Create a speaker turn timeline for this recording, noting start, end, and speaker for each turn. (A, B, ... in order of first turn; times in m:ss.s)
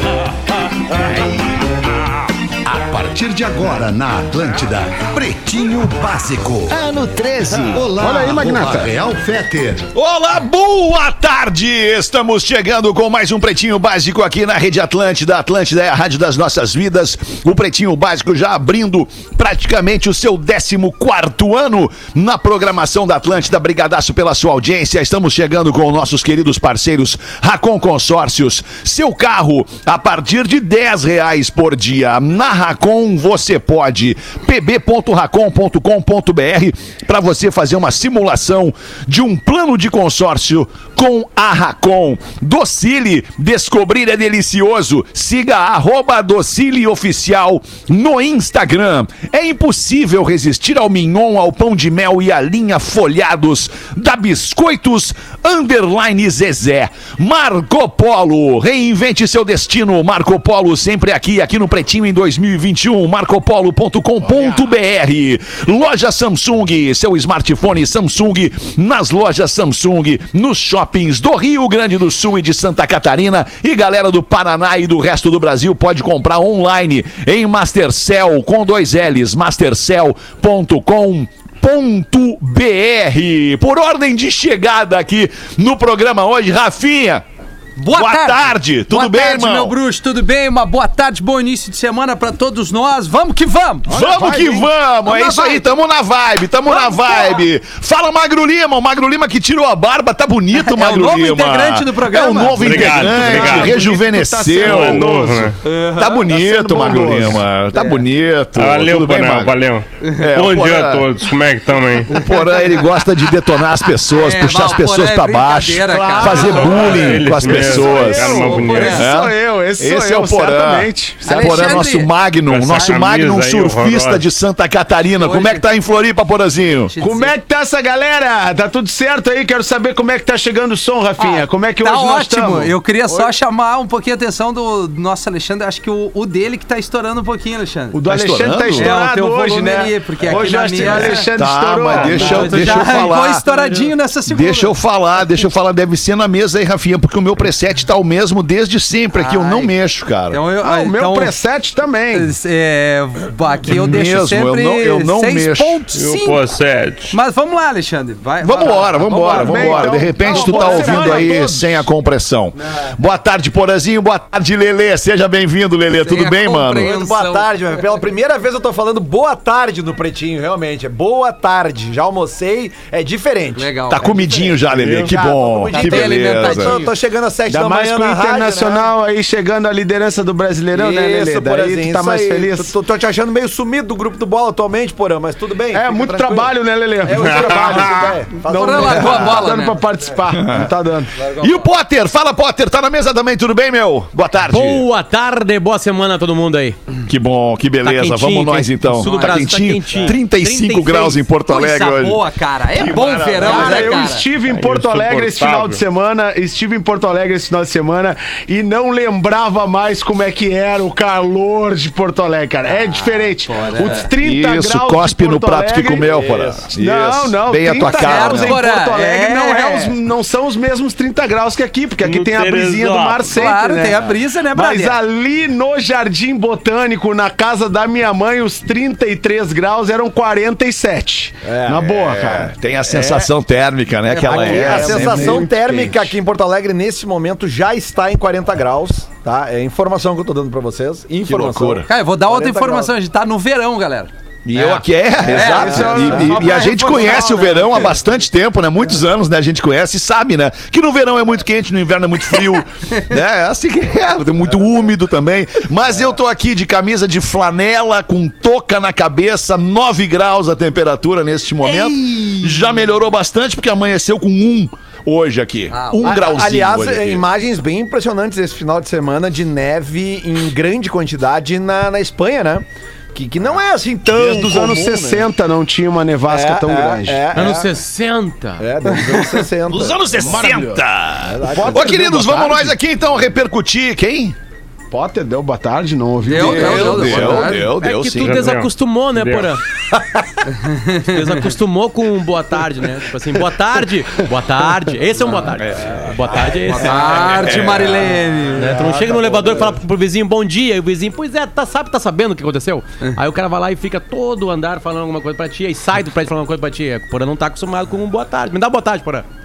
0:01.0-0:01.3 A
0:02.7-0:09.9 A
0:07.9-0:08.9 B
0:09.9-1:27.2 C
1:27.8-1:33.9 D
1:27.9-1:29.8 C
1:33.9-1:45.1 C
1:33.9-1:34.7 B
1:35.1-1:35.7 D
1:36.7-1:37.4 D
1:40.6-1:43.2 D
1:42.6-1:43.8 E
1:42.9-1:45.6 B
1:44.6-1:45.6 E
1:45.7-1:46.2 D
1:45.9-1:49.5 C
1:46.1-1:47.4 B
1:48.6-1:52.2 E
1:50.2-1:51.1 C
1:52.1-2:06.9 C
1:54.2-1:59.1 D
1:56.2-2:01.9 B
1:56.3-1:59.0 E
2:01.2-2:02.1 D
2:02.5-2:04.2 E
2:02.7-2:02.9 D
2:05.2-2:05.7 D
2:06.9-2:07.4 D
2:07.0-2:13.3 B
2:11.2-2:18.0 D
2:17.9-2:22.8 B
2:18.1-2:19.0 C
2:18.8-2:21.3 D
2:20.8-2:23.4 C
2:22.0-2:23.9 F
2:22.1-2:24.7 D
2:24.3-2:30.4 C
2:29.1-2:29.8 D
2:30.3-2:31.4 D
2:30.6-2:32.3 B
2:32.1-2:36.4 D
2:33.7-2:35.8 C
2:35.9-2:37.2 E
2:37.1-2:40.1 D
2:38.4-2:46.9 C
2:39.2-2:41.8 B
2:40.2-2:41.2 G
2:46.0-2:47.5 D
2:46.8-2:58.9 G
2:53.6-2:54.3 D
2:53.9-2:56.8 C
2:54.8-2:55.1 E
2:55.7-2:56.9 D
2:57.5-3:02.8 B
3:00.7-3:09.5 G
3:05.7-3:11.1 B
3:07.2-3:07.9 E
3:08.5-3:09.9 D
3:10.3-3:14.9 C
3:14.5-3:16.8 F
3:17.1-3:23.9 C
3:17.8-3:21.2 F
3:21.5-3:24.3 D
3:23.4-3:36.1 B
3:23.4-3:24.1 G
3:24.4-3:25.8 E
3:32.7-3:34.1 D
3:34.2-3:38.6 C
3:36.0-3:36.7 G
3:36.7-3:53.3 B
3:38.0-3:40.0 D
3:42.0-3:43.3 E
3:43.3-3:45.0 D
3:51.4-3:52.4 G
3:52.1-3:55.5 C
3:54.1-4:02.9 G
3:54.2-3:56.1 B
4:01.2-4:01.9 C
4:01.9-4:07.9 D
4:04.5-4:27.2 C
4:05.2-4:06.7 G
4:05.4-4:07.5 B
4:21.6-4:22.7 G
4:25.7-4:26.0 D
4:26.0-4:35.3 G
4:34.1-4:37.4 B
4:36.3-4:37.7 G
4:37.3-4:38.7 F
4:38.6-4:40.2 G
4:39.7-4:44.4 C
4:40.2-4:40.8 B
4:41.2-4:42.0 G
4:41.4-4:42.7 B
4:44.9-4:47.5 B
4:46.2-4:47.7 D
4:46.3-4:48.5 C
4:47.7-4:49.6 F
4:48.1-4:49.5 E
4:50.7-4:51.0 D
4:51.0-4:57.5 F
4:55.6-4:56.1 C
4:56.7-4:58.8 D
4:57.3-4:58.2 C
4:58.6-5:09.2 F
4:58.6-4:59.7 G